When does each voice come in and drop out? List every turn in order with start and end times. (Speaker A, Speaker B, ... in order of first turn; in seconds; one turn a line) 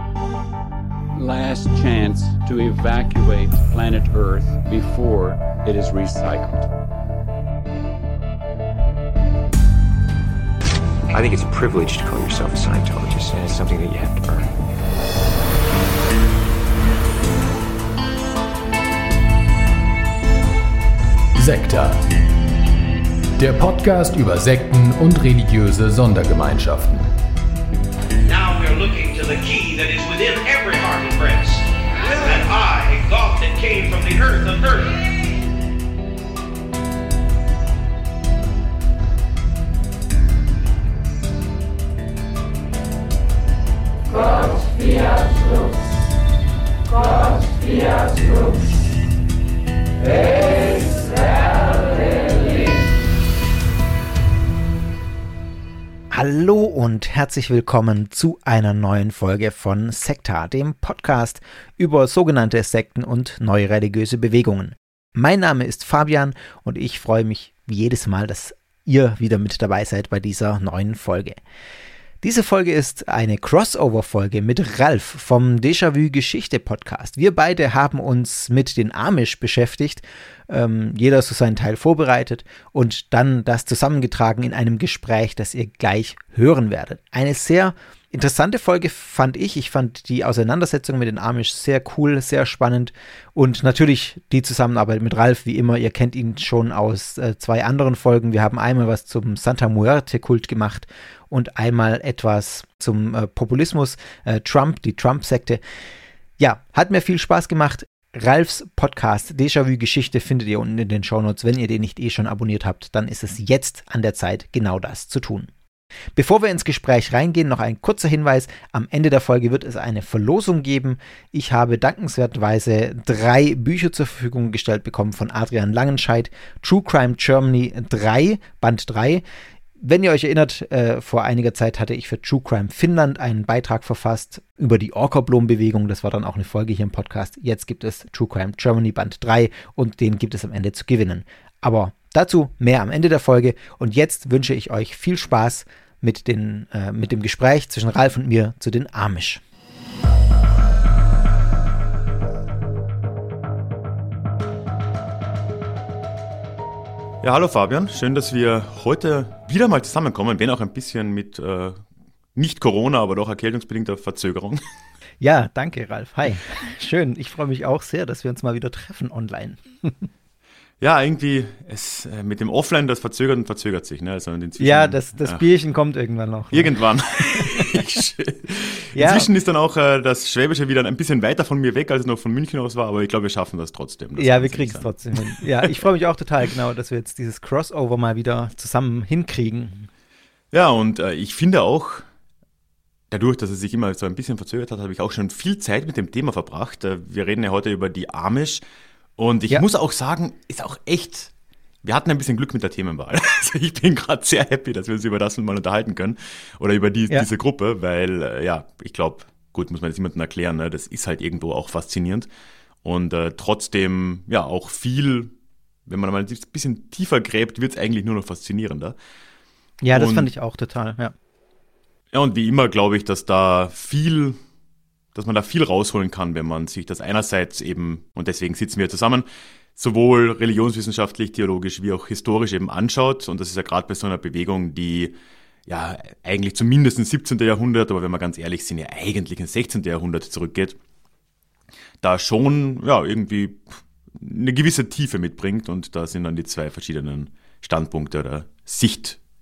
Speaker A: 1.1-6.7
Speaker B: 11.1-14.5
Speaker C: 21.3-22.0
Speaker C: 23.4-27.1
Speaker D: 28.2-35.0
Speaker E: 56.1-71.4
Speaker E: 72.2-105.6
Speaker E: 106.4-115.5
Speaker E: 116.2-129.2
Speaker E: 129.8-149.4
Speaker F: 157.2-161.8
Speaker F: 162.3-164.6
Speaker E: 165.2-169.9
Speaker F: 170.8-175.4
Speaker E: 174.6-176.7
Speaker F: 176.5-185.8
Speaker E: 178.9-179.3
Speaker E: 184.2-189.9
Speaker F: 190.5-192.1
Speaker F: 193.1-198.6
Speaker F: 199.2-201.3
Speaker F: 201.8-212.3
Speaker F: 212.8-215.3
Speaker F: 215.9-218.9
Speaker E: 219.8-221.1
Speaker F: 219.9-220.3
Speaker F: 222.1-224.4
Speaker F: 225.1-235.2
Speaker F: 235.7-240.8
Speaker F: 242.0-249.2